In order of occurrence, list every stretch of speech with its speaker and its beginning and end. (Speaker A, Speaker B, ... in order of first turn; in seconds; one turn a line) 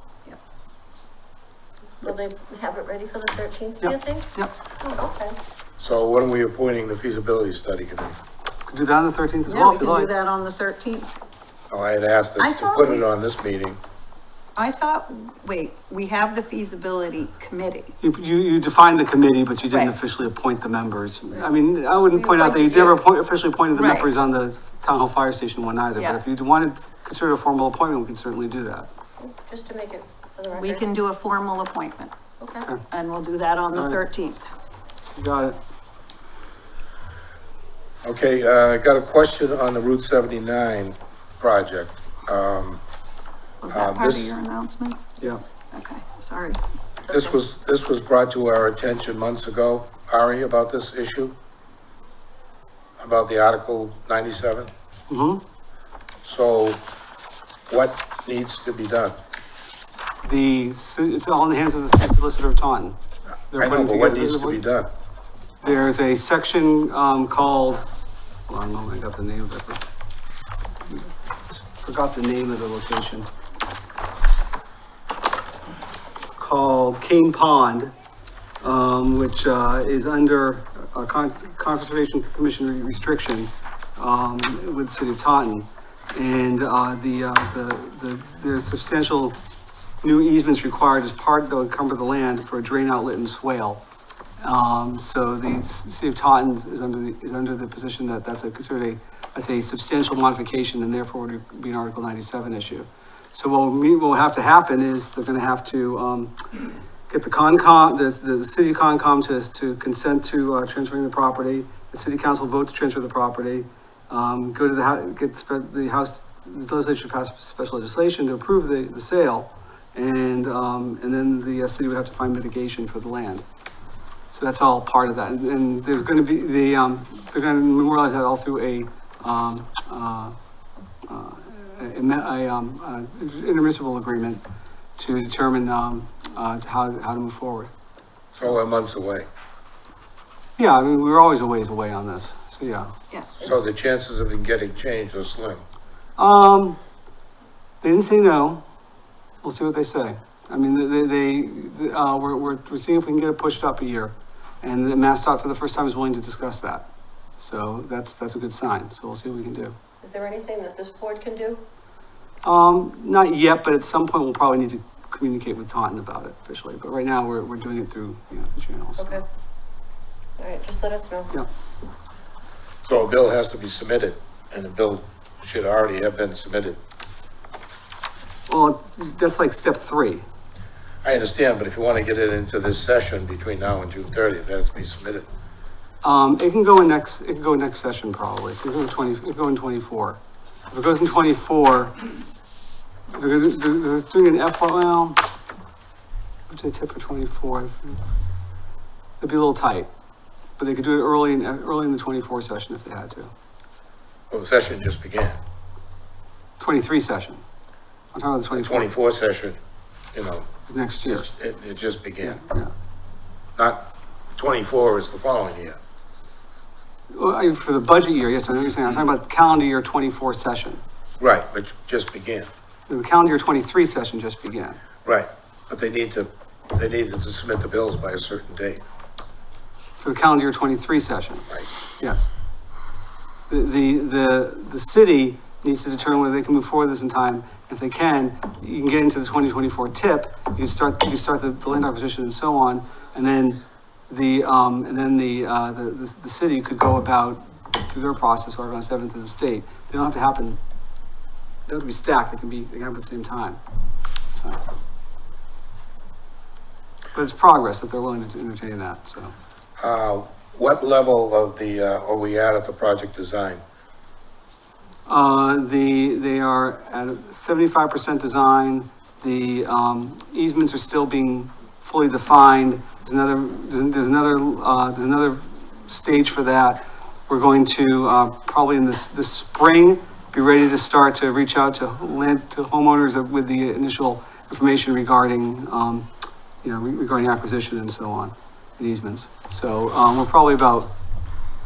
Speaker A: 2.0-5.4
Speaker B: 3.8-4.5
Speaker C: 5.8-8.2
Speaker B: 8.7-10.1
Speaker D: 9.4-11.1
Speaker C: 11.7-13.8
Speaker D: 12.4-13.0
Speaker D: 14.6-17.9
Speaker B: 18.0-28.9
Speaker D: 19.7-19.9
Speaker D: 22.1-23.0
Speaker D: 23.7-24.1
Speaker D: 25.9-26.2
Speaker A: 29.2-30.9
Speaker D: 30.5-34.5
Speaker B: 33.7-34.0
Speaker B: 35.1-35.6
Speaker C: 38.0-42.8
Speaker D: 43.6-47.2
Speaker C: 43.7-44.3
Speaker C: 47.1-51.3
Speaker C: 53.0-54.7
Speaker B: 55.1-55.4
Speaker C: 56.2-56.8
Speaker C: 57.7-59.2
Speaker B: 60.2-63.0
Speaker B: 63.5-64.6
Speaker C: 63.5-64.9
Speaker B: 65.6-67.8
Speaker B: 68.5-69.8
Speaker B: 70.9-73.3
Speaker B: 76.3-77.9
Speaker B: 78.6-89.4
Speaker B: 90.0-93.8
Speaker B: 94.4-106.4
Speaker B: 107.1-123.5
Speaker B: 124.3-130.3
Speaker B: 131.1-134.4
Speaker B: 135.0-137.7
Speaker C: 138.3-139.3
Speaker B: 140.6-142.9
Speaker C: 143.4-145.6
Speaker B: 146.2-146.8
Speaker B: 147.8-148.6
Speaker B: 149.4-159.8
Speaker A: 160.0-161.6
Speaker B: 162.4-169.2
Speaker A: 170.4-171.4
Speaker C: 172.8-176.8
Speaker B: 178.5-180.2
Speaker C: 181.0-185.3
Speaker B: 186.0-191.9
Speaker B: 193.1-195.2
Speaker B: 196.5-198.0
Speaker B: 199.2-199.9
Speaker B: 200.6-203.3
Speaker C: 204.3-205.4
Speaker B: 206.6-207.4
Speaker B: 208.1-208.9
Speaker C: 208.5-209.6
Speaker C: 210.1-210.5
Speaker B: 210.7-211.3
Speaker C: 211.1-212.4
Speaker B: 212.2-212.7
Speaker C: 213.6-215.8
Speaker B: 217.1-220.8
Speaker C: 221.2-222.5
Speaker B: 222.9-224.8
Speaker C: 225.0-228.8
Speaker B: 230.0-232.3
Speaker B: 233.5-250.6
Speaker B: 251.7-253.6
Speaker B: 254.3-254.7
Speaker B: 257.1-259.3
Speaker C: 259.8-263.6
Speaker B: 265.1-286.1
Speaker B: 286.6-290.9